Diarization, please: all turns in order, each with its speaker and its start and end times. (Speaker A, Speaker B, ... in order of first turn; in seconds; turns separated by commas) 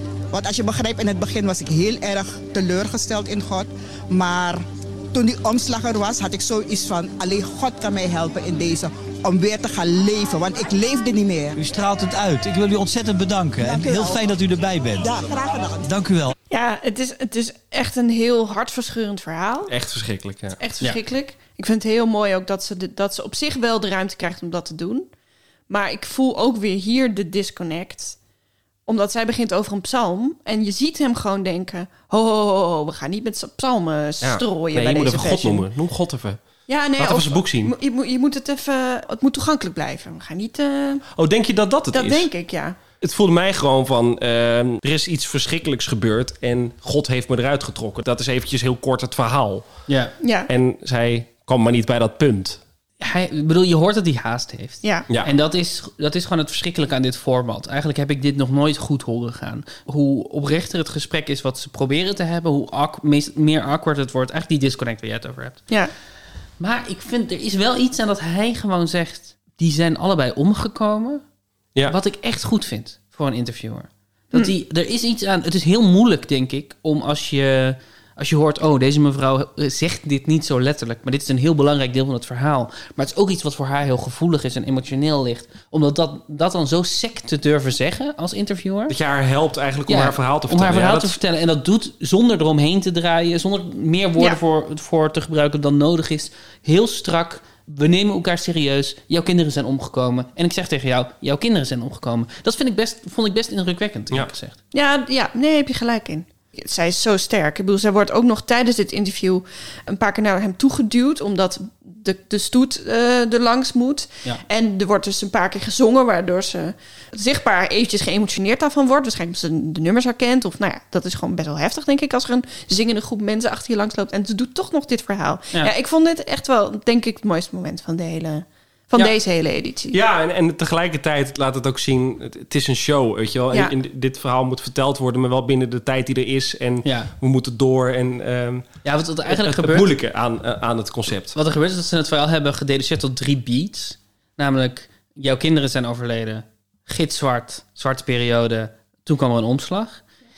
Speaker A: 0.3-11.6, Speaker B: 11.6-15.1, Speaker A: 13.6-14.4, Speaker A: 15.0-15.9, Speaker B: 15.8-16.3, Speaker C: 16.5-19.7, Speaker D: 19.7-20.6, Speaker C: 20.6-25.1, Speaker C: 25.7-28.2, Speaker C: 28.9-35.6, Speaker D: 34.2-36.4, Speaker C: 36.7-41.0, Speaker D: 37.0-37.7, Speaker D: 41.1-42.3, Speaker C: 41.9-42.8, Speaker D: 43.0-49.7, Speaker C: 50.2-50.5, Speaker D: 50.5-52.6, Speaker E: 53.0-65.7, Speaker E: 66.6-71.2, Speaker E: 71.8-89.0, Speaker D: 88.9-91.2, Speaker E: 89.9-104.6, Speaker C: 104.7-130.0, Speaker D: 129.9-138.7, Speaker E: 136.8-137.1, Speaker E: 138.8-139.9, Speaker D: 139.2-141.3, Speaker E: 141.3-150.0